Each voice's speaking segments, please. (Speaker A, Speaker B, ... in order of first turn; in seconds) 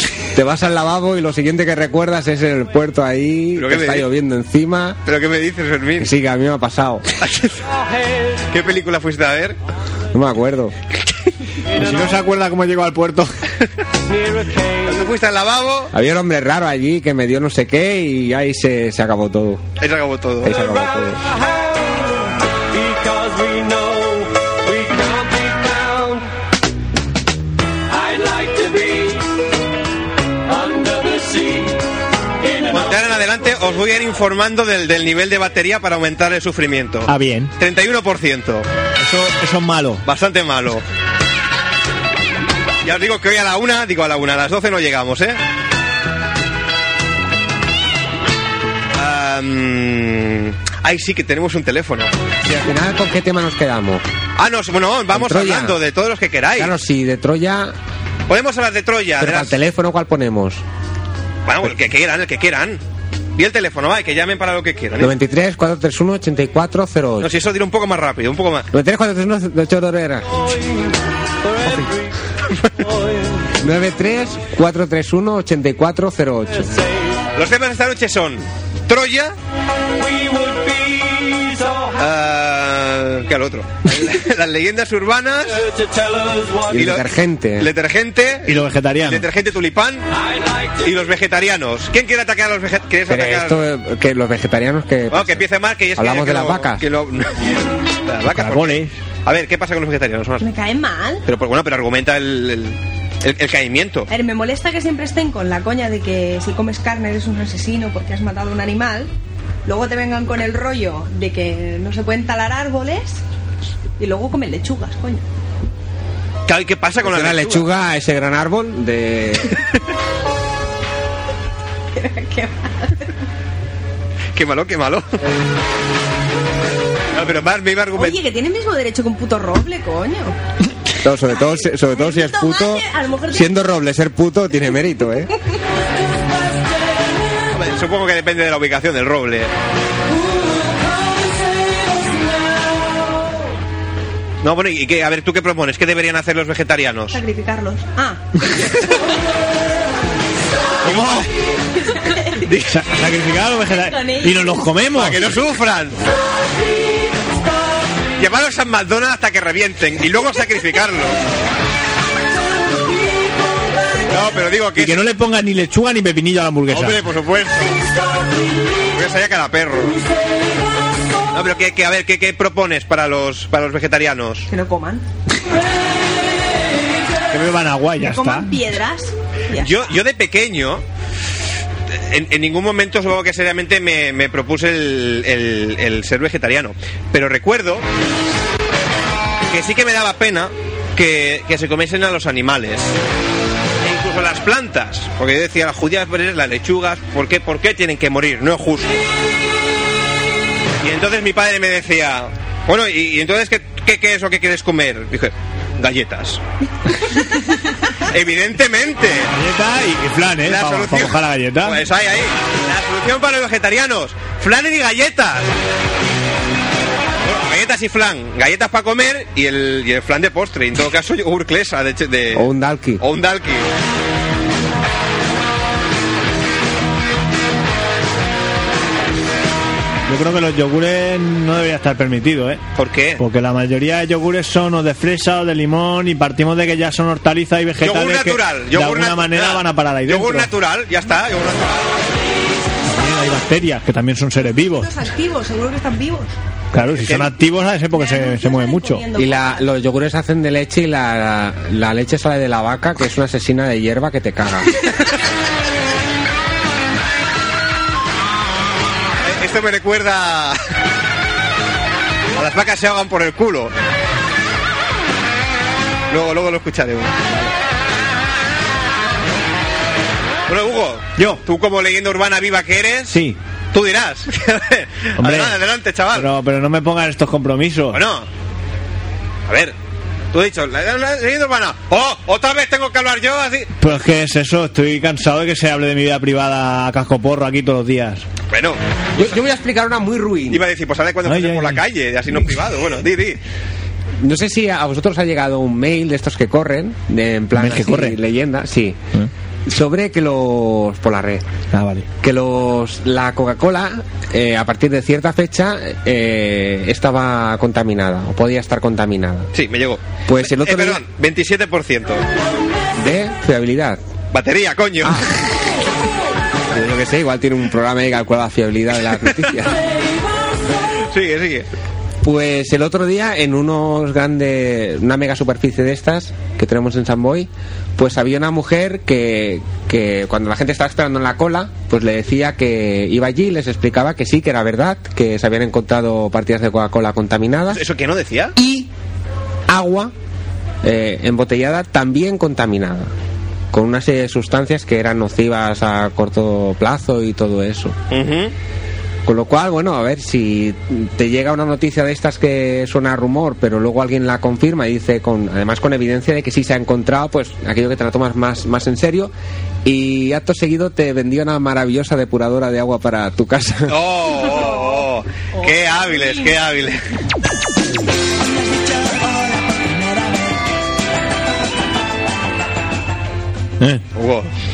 Speaker A: 0.3-5.0, 6.0-7.1, 10.1-10.8, 15.9-19.6, 20.4-21.2, 52.4-54.0, 55.1-55.8, 56.6-57.8, 59.2-60.6, 65.0-67.3, 68.7-70.5, 71.6-71.9, 73.6-76.8, 86.7-87.7, 93.1-96.8, 117.0-119.6, 131.0-135.3, 222.3-223.0, 249.1-254.8, 289.1-290.6, 294.2-299.1, 299.6-301.5, 302.2-309.5, 310.3-311.0, 312.9-314.0, 315.0-315.3, 316.7-319.8, 322.2-337.8, 338.6-338.9, 339.7-340.1, 340.8-343.1, 343.7-348.0, 349.2-359.3, 359.8-364.0
Speaker B: 3.6-4.1, 5.1-6.1, 7.2-7.6, 8.5-9.6, 14.8-15.9, 19.8-20.6, 32.7-38.7, 40.0-40.9, 42.8-45.4, 48.9-52.1, 54.4-56.7, 58.3-59.6, 61.5-62.8, 63.4-65.1, 67.2-68.7, 77.3-79.3, 82.0-85.7, 86.7-90.1, 90.8-93.7, 95.1-100.5, 101.3-104.1, 116.5-117.7, 124.3-125.2, 127.1-128.2, 137.5-139.5, 144.4-147.2, 150.8-151.3, 154.9-156.0, 158.2-161.2, 164.1-165.1, 166.7-167.9, 168.9-170.0, 171.3-174.5, 179.6-180.8, 181.9-187.9, 189.5-192.9, 193.8-199.0, 200.8-206.4, 208.1-209.3, 210.4-215.5, 217.2-222.5, 223.0-223.7, 232.8-233.2, 237.8-242.0, 246.8-247.3, 259.2-260.6, 262.4-263.7, 266.1-267.5, 270.5-273.2, 273.7-276.3, 277.9-278.3, 279.5-279.8, 280.3-283.7, 288.5-289.3, 290.5-293.4, 309.5-312.3, 314.3-315.3, 321.1-321.7, 337.7-338.6, 348.1-348.5, 363.9-367.0, 374.1-374.5
Speaker C: 11.7-13.3, 37.1-37.5, 39.0-40.0, 88.5-89.3, 98.3-99.0, 150.8-151.3, 152.5-155.3, 164.8-167.0, 177.3-178.5, 209.3-211.9, 230.1-232.6, 233.2-240.5, 242.9-244.9, 246.7-249.0, 271.2-271.4, 273.1-273.4, 275.2-275.6, 276.1-278.0, 283.8-288.2, 291.2-291.8, 297.6-298.2, 301.7-302.1
Speaker D: 100.4-101.2, 104.1-109.1, 109.7-113.2, 114.0-115.2, 122.0-123.1, 128.0-130.4, 131.4-133.6, 147.1-149.0, 151.8-152.5, 153.7-154.6, 174.5-175.1, 178.0-180.0, 244.5-246.3, 247.9-249.7, 364.5-366.6, 368.8-370.4